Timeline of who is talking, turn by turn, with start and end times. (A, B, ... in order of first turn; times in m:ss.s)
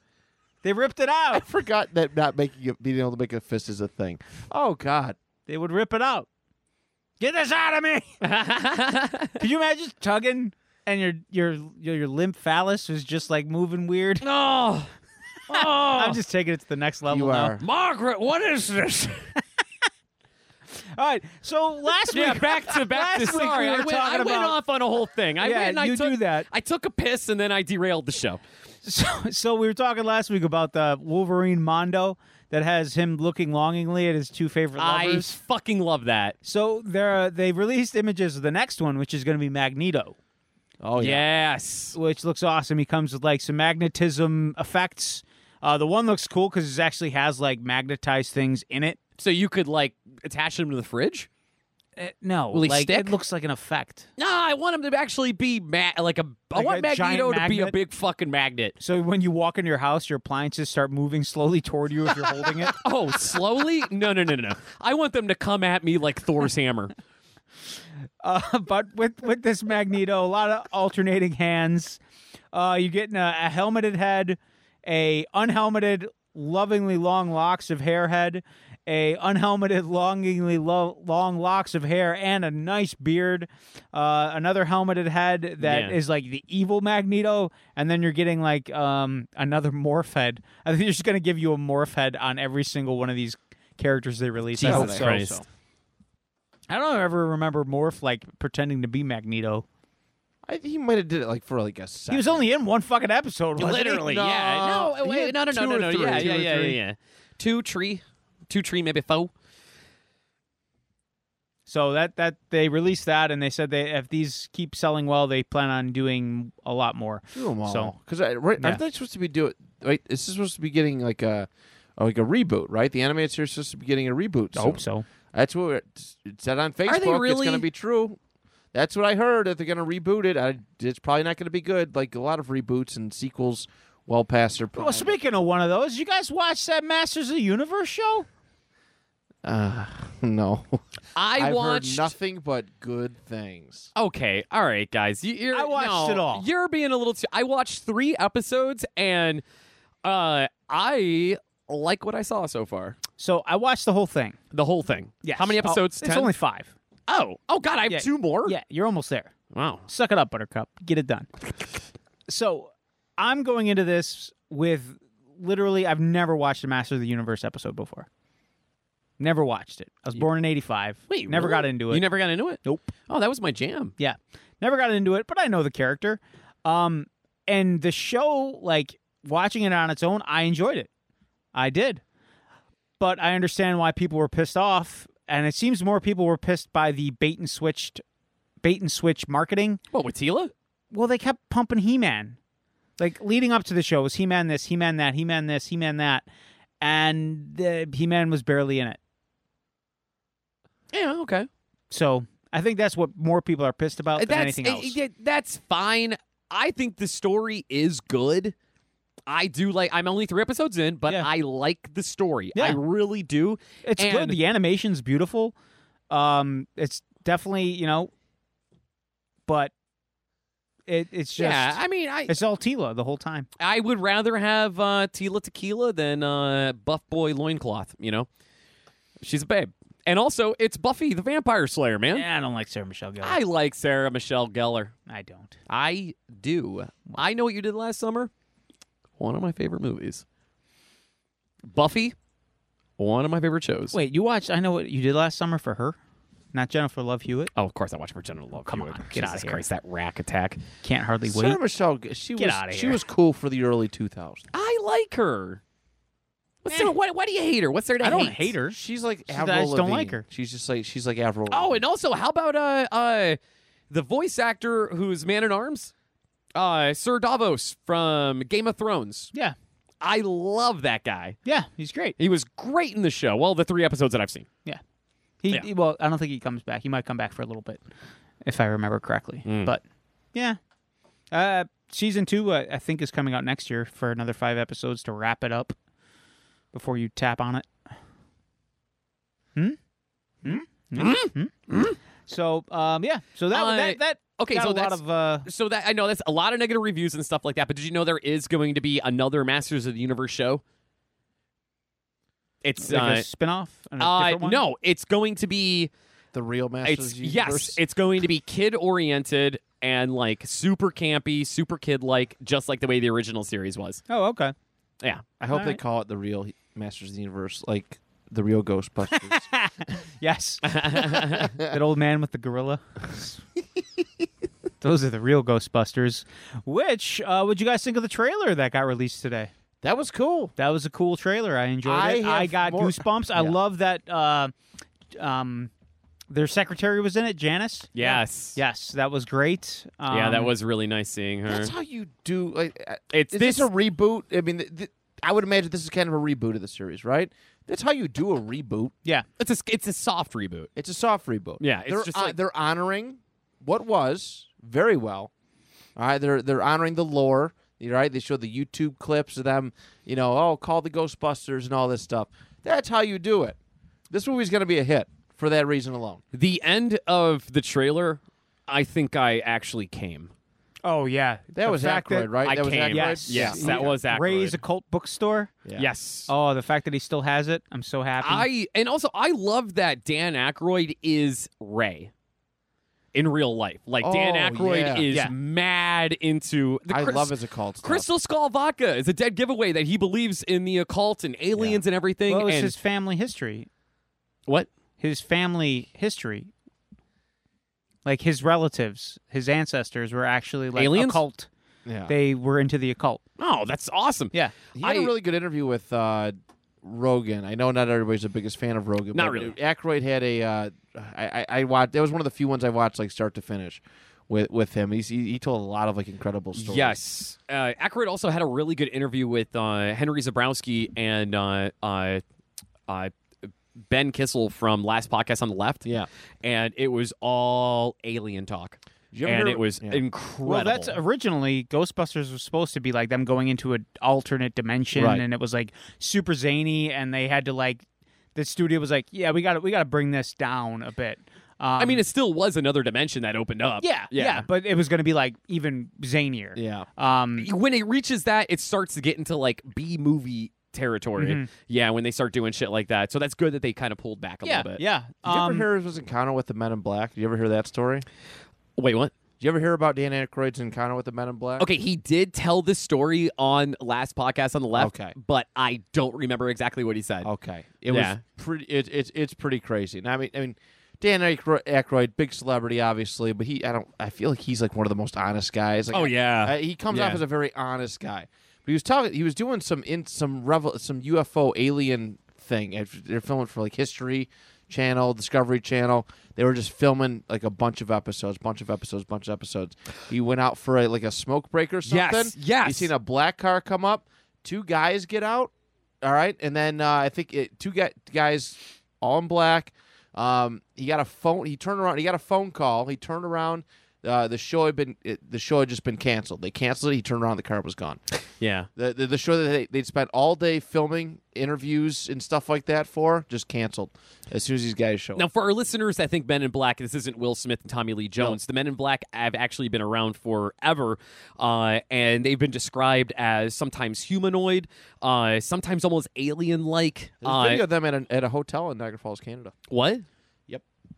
0:00.6-0:01.4 A
0:01.3-0:05.2 B
0:05.5-0:06.3 A
0:07.2-0:08.1 A
0:08.2-0:09.4 C
0:09.4-0:14.2 A
0:14.2-0:14.9 C
0:15.5-0:16.2 C
0:15.5-0:17.6 A
0:17.1-0:17.6 B
0:17.6-0:19.3 C
0:20.7-0:24.6 A
0:22.1-0:28.4 C
0:25.4-0:26.5 A
0:28.8-0:35.4 A
0:34.8-0:36.4 C
0:36.4-0:40.2 A
0:40.8-0:41.2 B
0:41.0-0:42.0 C
0:41.9-0:49.0 A
0:49.2-0:51.3 C
0:52.0-0:54.1 A
0:52.5-0:53.1 C
0:54.2-0:58.8 C
0:56.5-0:57.8 A
0:58.8-1:02.8 A
1:02.7-1:06.9 C
1:08.2-1:12.0 A
1:12.5-1:35.4 A
1:25.6-1:26.0 C
1:34.6-1:35.4 C
1:34.6-1:35.1 B
1:36.7-1:39.6 A
1:40.4-1:42.4 B
1:42.1-1:44.1 A
1:43.6-1:49.3 C
1:43.6-1:46.8 B
1:51.7-1:57.9 A
1:57.3-2:08.2 B
2:04.5-2:05.0 A
2:06.8-2:07.6 C
2:08.7-2:15.1 B
2:14.8-2:18.3 A
2:19.4-2:20.8 B
2:21.1-2:22.1 C
2:21.3-2:23.9 B
2:24.0-2:29.4 C
2:25.5-2:26.4 A
2:30.0-2:33.0 C
2:33.2-2:34.4 A
2:34.5-2:36.3 C
2:35.2-2:36.7 A
2:37.1-2:38.5 C
2:37.9-2:39.3 A
2:39.5-2:39.8 C
2:39.9-2:41.3 A
2:42.3-2:48.1 A
2:49.2-2:52.0 A
2:51.1-2:53.9 C
2:52.6-2:52.9 A
2:54.0-3:00.9 A
3:01.5-3:02.0 A
3:03.0-3:08.0 A
3:08.6-3:09.8 A
3:09.9-3:10.5 C
3:10.9-3:12.4 A
3:13.0-3:16.2 A
3:16.8-3:19.0 A
3:20.9-3:21.5 C
3:21.9-3:25.0 A
3:24.2-3:28.5 C
3:29.3-3:34.4 C
3:32.5-3:32.8 A
3:33.8-3:35.5 A
3:36.1-3:38.1 A
3:39.5-3:39.7 A
3:40.9-3:43.5 A
3:41.4-3:42.3 C
3:43.6-3:48.3 C
3:49.2-3:52.2 C
3:52.1-3:53.4 A
3:53.2-3:54.9 C
3:55.1-3:55.6 A
3:55.7-3:58.3 C
3:59.2-4:00.2 C
4:01.7-4:02.1 C
4:03.0-4:04.0 C
4:03.9-4:06.0 A
4:06.5-4:07.5 A
4:07.6-4:10.6 C
4:08.7-4:09.6 A
4:10.8-4:11.6 A
4:11.3-4:14.5 B
4:12.4-4:13.0 A
4:14.5-4:15.6 C
4:16.6-4:18.5 C
4:18.0-4:18.8 A
4:18.7-4:21.8 B
4:19.3-4:20.2 A
4:21.5-4:23.4 C
4:23.9-4:25.9 C
4:26.5-4:29.3 C
4:30.0-4:31.4 C
4:31.4-4:32.2 A
4:32.2-4:34.5 C
4:35.4-4:37.8 A
4:38.4-4:39.8 A
4:39.4-4:39.7 C
4:40.3-4:40.6 A
4:41.3-4:45.8 A
4:46.7-4:47.7 A
4:50.4-4:51.5 A
4:51.0-4:52.0 C
4:52.3-4:55.5 A
4:53.5-5:00.6 C
5:02.6-5:03.2 C
5:02.8-5:04.6 A
5:04.0-5:05.9 C
5:06.3-5:07.8 B
5:06.8-5:14.0 C
5:14.1-5:14.5 A
5:15.4-5:19.5 B
5:15.5-5:15.8 A
5:19.1-5:23.4 A
5:20.6-5:21.5 C
5:21.2-5:21.7 B
5:24.8-5:29.5 A
5:29.8-5:30.5 B
5:30.6-5:34.5 A
5:31.8-5:33.6 B
5:35.1-5:35.7 A
5:36.3-5:40.5 A
5:37.9-5:38.6 C
5:40.1-5:41.7 C
5:41.5-5:48.9 B
5:43.1-5:43.7 C
5:49.4-5:50.7 C
5:50.8-5:55.3 B
5:51.6-5:52.4 C
5:56.0-6:03.6 B
6:04.1-6:06.2 B
6:06.3-6:10.3 C
6:10.8-6:15.5 A
6:11.5-6:14.0 B
6:12.4-6:14.6 C
6:15.6-6:15.9 B
6:15.8-6:16.3 C
6:16.3-6:18.5 A
6:18.2-6:22.1 C
6:23.1-6:32.7 C
6:24.0-6:25.1 B
6:26.9-6:28.1 B
6:31.5-6:31.8 B
6:32.3-6:33.7 A
6:35.0-6:36.5 A
6:38.0-6:41.5 A
6:40.8-6:41.2 C
6:41.8-6:42.1 B
6:42.1-6:43.2 A
6:43.4-6:45.1 C
6:44.7-6:57.0 B
6:49.1-6:49.5 C
6:56.5-7:02.2 C
7:02.9-7:03.1 C
7:03.9-7:05.9 C
7:06.4-7:11.0 C
7:09.1-7:10.0 B
7:10.4-7:17.8 A
7:14.9-7:15.2 B
7:18.3-7:22.0 A
7:21.8-7:24.5 C
7:23.8-7:27.5 A
7:26.6-7:26.9 B
7:27.4-7:34.8 C
7:31.2-7:31.5 A
7:34.4-7:35.7 A
7:35.2-7:38.0 B
7:38.8-7:39.2 C
7:39.4-7:41.7 B
7:41.6-7:47.3 C
7:44.7-7:45.1 B
7:47.2-8:28.0 B
7:47.9-7:48.2 C
7:55.9-7:57.2 C
8:11.8-8:12.9 C
8:28.4-8:28.7 C
8:28.8-8:35.2 B
8:35.2-8:47.6 C
8:47.2-8:49.5 B
8:49.7-8:50.0 C